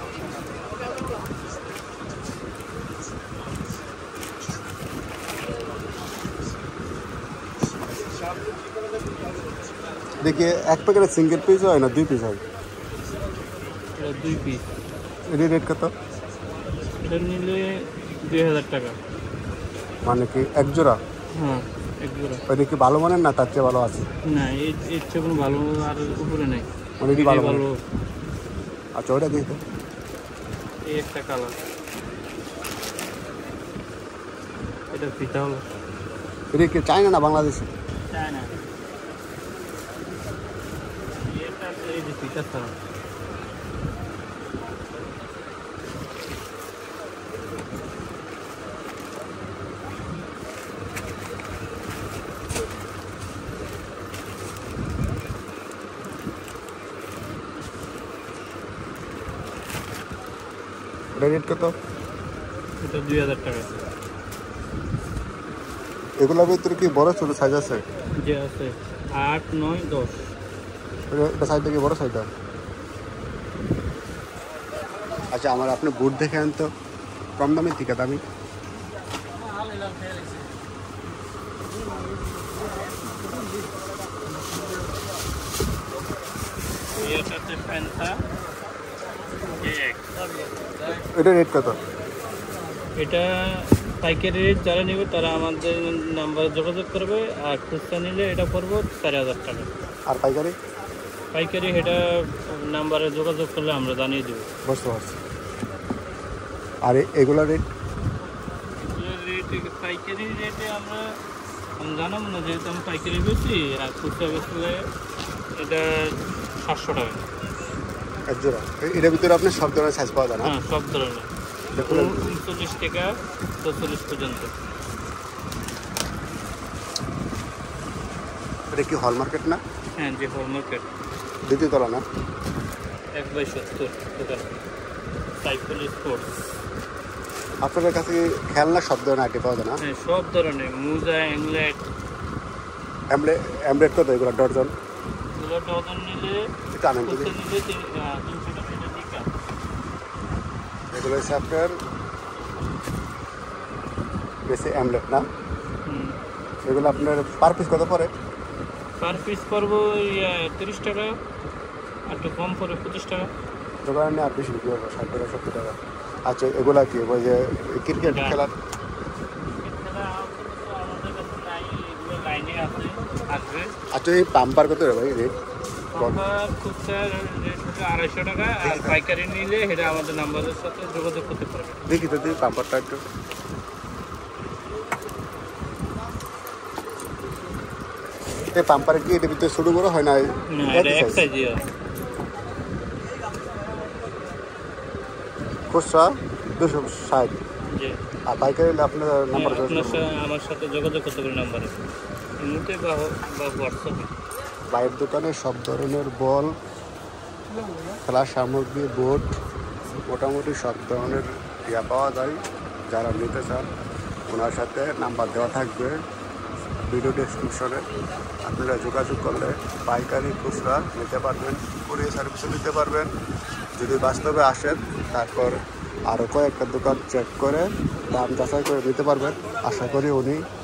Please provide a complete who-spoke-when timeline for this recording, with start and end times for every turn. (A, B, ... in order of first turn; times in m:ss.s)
0:10.2-0:12.4 A
0:14.0-0:14.6 B
0:15.3-0:15.9 A
0:17.0-0:19.0 B
0:20.1-0:21.0 A
0:21.4-0:22.4 B
0:22.5-0:24.1 A
0:24.3-0:27.8 B
0:27.0-0:27.6 A
0:29.0-0:29.6 A
0:30.9-0:31.6 B
0:34.9-0:35.7 B
0:36.5-0:37.7 A
0:38.1-0:38.5 B
0:41.2-0:42.8 B
1:01.2-1:01.7 A
1:02.8-1:03.8 B
1:06.2-1:07.8 A
1:08.2-1:10.3 B
1:11.1-1:12.3 A
1:15.3-1:16.7 A
1:17.4-1:18.2 A
1:27.0-1:28.2 B
1:29.6-1:30.1 B
1:31.2-1:31.8 A
1:33.0-1:39.7 B
1:40.1-1:40.6 A
1:41.3-1:44.5 B
1:44.7-1:45.2 A
1:46.8-1:47.6 A
1:48.8-1:51.0 B
1:51.8-1:54.8 B
1:55.6-1:55.8 B
1:56.6-1:57.2 B
1:58.3-2:00.5 A
2:00.4-2:04.5 B
2:01.8-2:02.2 A
2:08.7-2:09.6 A
2:10.0-2:10.9 B
2:11.4-2:12.0 A
2:13.2-2:14.6 B
2:15.4-2:16.4 B
2:17.6-2:19.8 A
2:19.8-2:21.8 B
2:23.1-2:24.7 A
2:25.4-2:26.4 B
2:26.7-2:27.4 A
2:27.0-2:29.3 B
2:30.9-2:31.8 A
2:34.5-2:35.2 A
2:35.9-2:36.2 B
2:36.7-2:38.1 A
2:39.0-2:41.2 B
2:42.1-2:43.3 B
2:43.8-2:48.5 A
2:48.1-2:48.4 B
2:49.6-2:53.8 B
2:53.9-2:55.3 A
2:55.9-3:01.8 B
2:56.0-2:56.2 A
2:58.6-2:59.0 A
3:01.9-3:03.0 A
3:08.5-3:11.3 A
3:10.5-3:11.6 B
3:15.7-3:17.4 A
3:17.7-3:18.0 B
3:18.3-3:20.1 A
3:19.3-3:21.7 B
3:22.4-3:24.1 B
3:24.7-3:26.5 A
3:28.1-3:29.3 A
3:30.1-3:33.7 A
3:34.3-3:36.0 A
3:36.9-3:37.8 A
3:38.4-3:43.1 A
3:43.8-3:45.6 A
3:46.1-3:50.4 A